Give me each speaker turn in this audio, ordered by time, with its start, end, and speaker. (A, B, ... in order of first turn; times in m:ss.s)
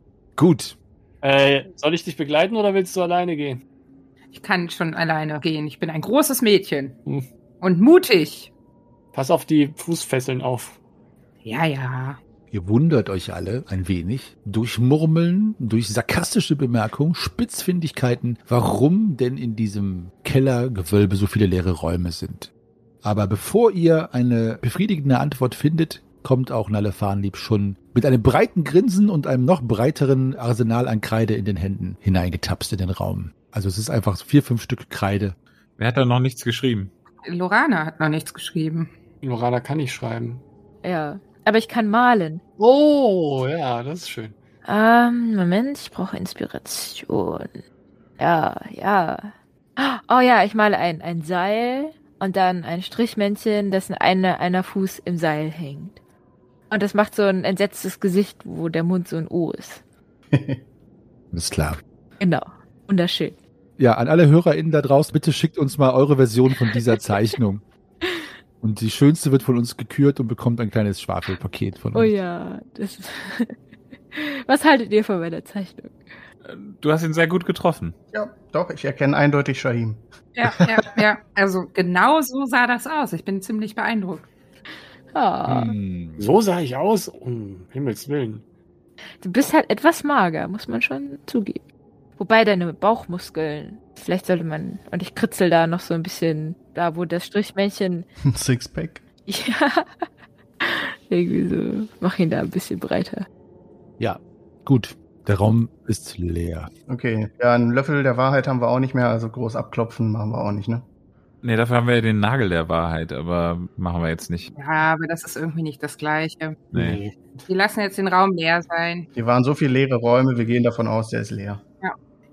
0:00.4-0:00.8 A
0:01.2-0:03.6 B
0:04.3-0:07.0 C
0:07.6-0:08.5 C
0:09.1-0:10.8 B
0:11.4-0:12.2 C
0:12.5-0:22.5 A
0:23.0-0:35.4 A
0:35.8-0:36.9 D
0:37.2-0:38.9 C
0:39.2-0:40.4 B
0:40.8-0:42.4 E
0:42.6-0:44.3 B
0:44.6-0:47.6 E
0:48.2-0:56.0 E
0:56.7-0:59.8 E
1:00.3-1:00.6 F
1:01.3-1:01.8 A
1:02.2-1:03.4 E
1:03.8-1:07.6 A
1:08.0-1:08.3 E
1:08.6-1:12.1 A
1:11.9-1:13.6 E
1:14.1-1:16.0 E
1:16.4-1:18.0 D
1:18.1-1:20.0 F
1:20.3-1:24.3 C
1:20.7-1:21.0 A
1:25.1-1:25.8 E
1:25.5-1:26.3 A
1:26.2-1:28.4 B
1:29.2-1:31.6 E
1:32.2-1:38.0 E
1:38.3-1:39.0 F
1:39.3-1:40.0 E
1:40.6-1:43.3 E
1:44.0-1:46.7 A
1:46.9-1:50.8 F
1:51.4-1:54.5 D
1:54.5-1:56.7 C
1:56.7-1:57.0 D
1:56.7-1:57.4 B
1:57.5-1:59.1 C
1:59.2-2:01.6 F